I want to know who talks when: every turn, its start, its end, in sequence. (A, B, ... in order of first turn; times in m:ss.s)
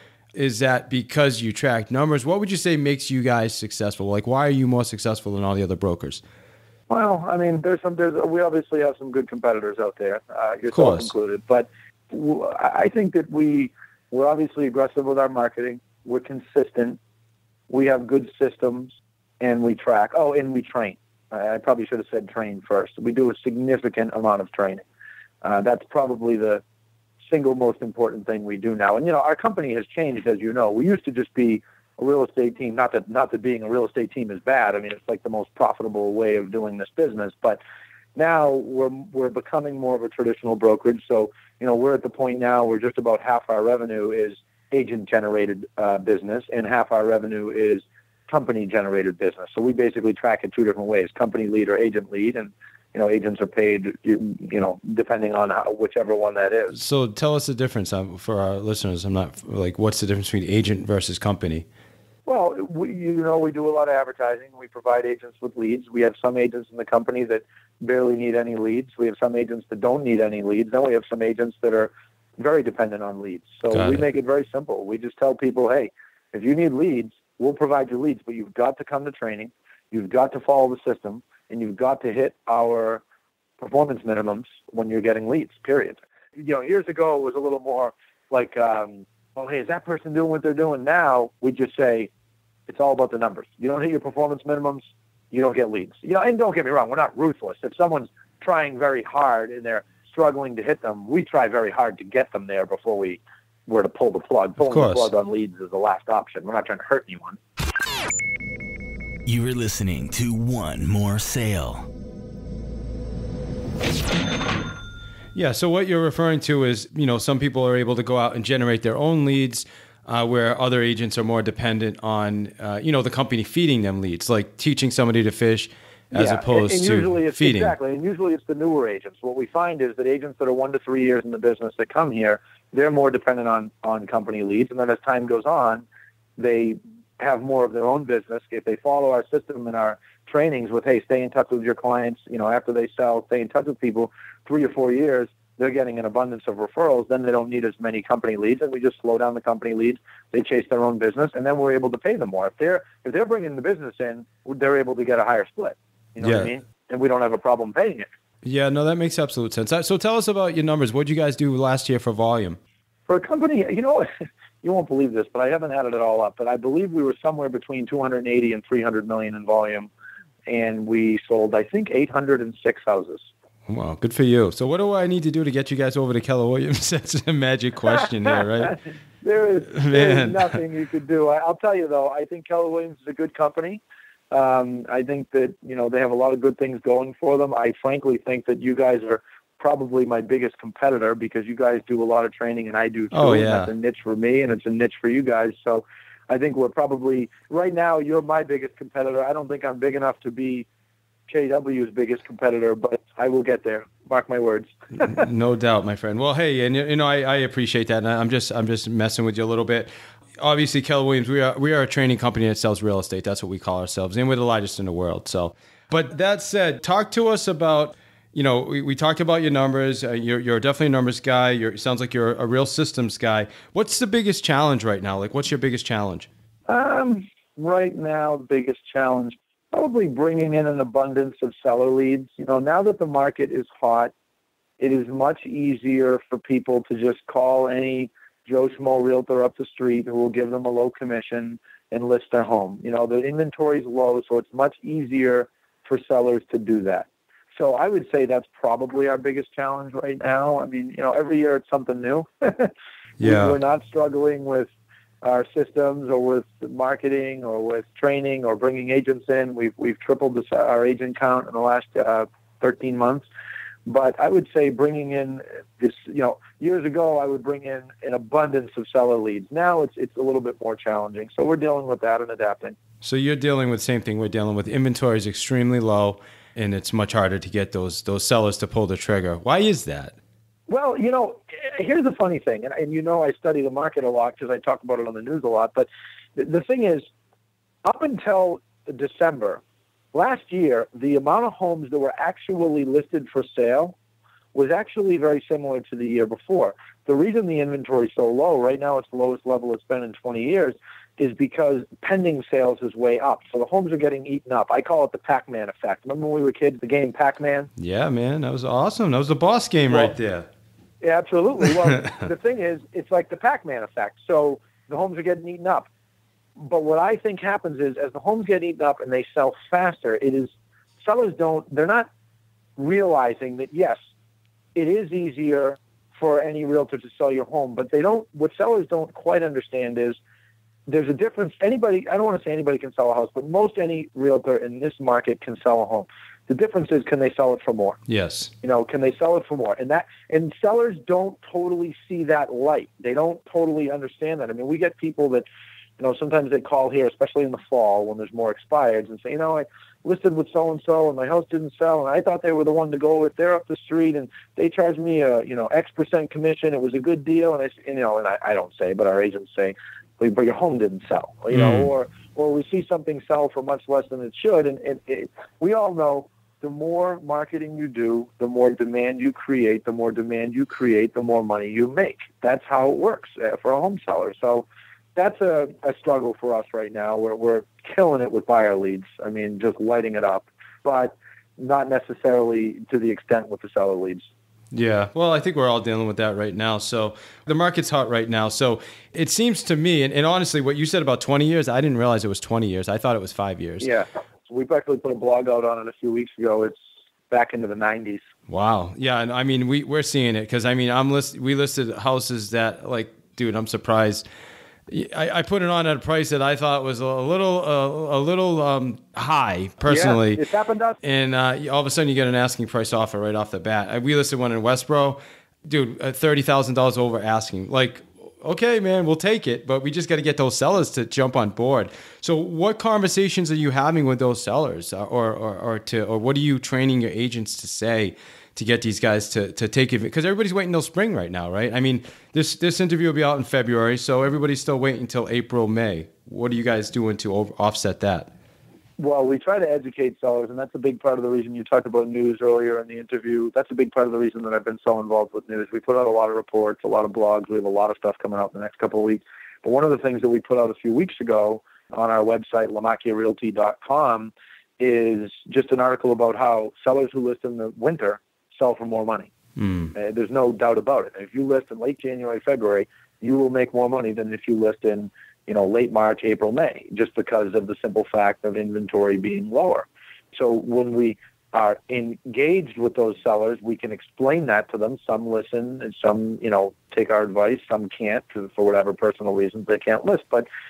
0:00.3-0:06.2 A
0:06.9-0:17.0 B
0:10.7-0:11.1 A
0:17.7-0:24.8 B
0:25.4-0:26.6 B
0:27.3-0:37.6 B
0:38.2-0:56.8 B
0:56.7-1:01.6 A
1:02.2-1:23.0 B
1:13.7-1:14.0 A
1:23.6-1:32.1 B
1:32.7-1:47.4 B
1:44.6-1:45.1 A
1:49.2-1:51.8 C
1:55.3-2:07.7 A
2:06.1-2:15.8 B
2:16.4-2:38.1 B
2:36.2-2:36.5 A
2:38.4-2:42.6 A
2:43.1-2:44.1 B
2:44.6-2:49.9 B
2:50.5-2:53.3 B
2:53.7-2:58.8 A
2:58.3-3:20.7 B
2:59.7-3:00.5 A
3:13.1-3:13.7 A
3:21.3-3:25.2 B
3:25.0-3:46.3 A
3:46.7-3:54.1 B
3:54.8-4:14.7 B
4:13.2-4:13.6 A
4:15.2-4:23.2 B
4:23.8-4:32.8 B
4:33.0-4:40.1 A
4:40.7-4:47.0 B
4:47.8-4:49.6 B
4:50.1-4:53.9 B
4:54.5-5:07.7 B
5:07.8-5:10.5 A
5:11.0-5:15.9 B
5:16.6-5:22.1 B
5:22.8-5:24.0 B
5:24.7-5:30.2 B
5:30.9-5:38.0 B
5:38.1-5:38.5 A
5:38.6-5:45.4 B
5:46.0-6:24.3 B
6:01.5-6:01.9 A
6:24.7-6:33.9 A
6:33.8-6:36.8 B
6:37.3-6:38.2 B
6:38.5-6:44.2 A
6:44.9-6:50.4 A
6:49.8-6:51.0 B
6:51.0-7:18.3 A
7:19.0-7:39.3 B
7:39.6-7:39.9 A
7:39.9-8:00.5 B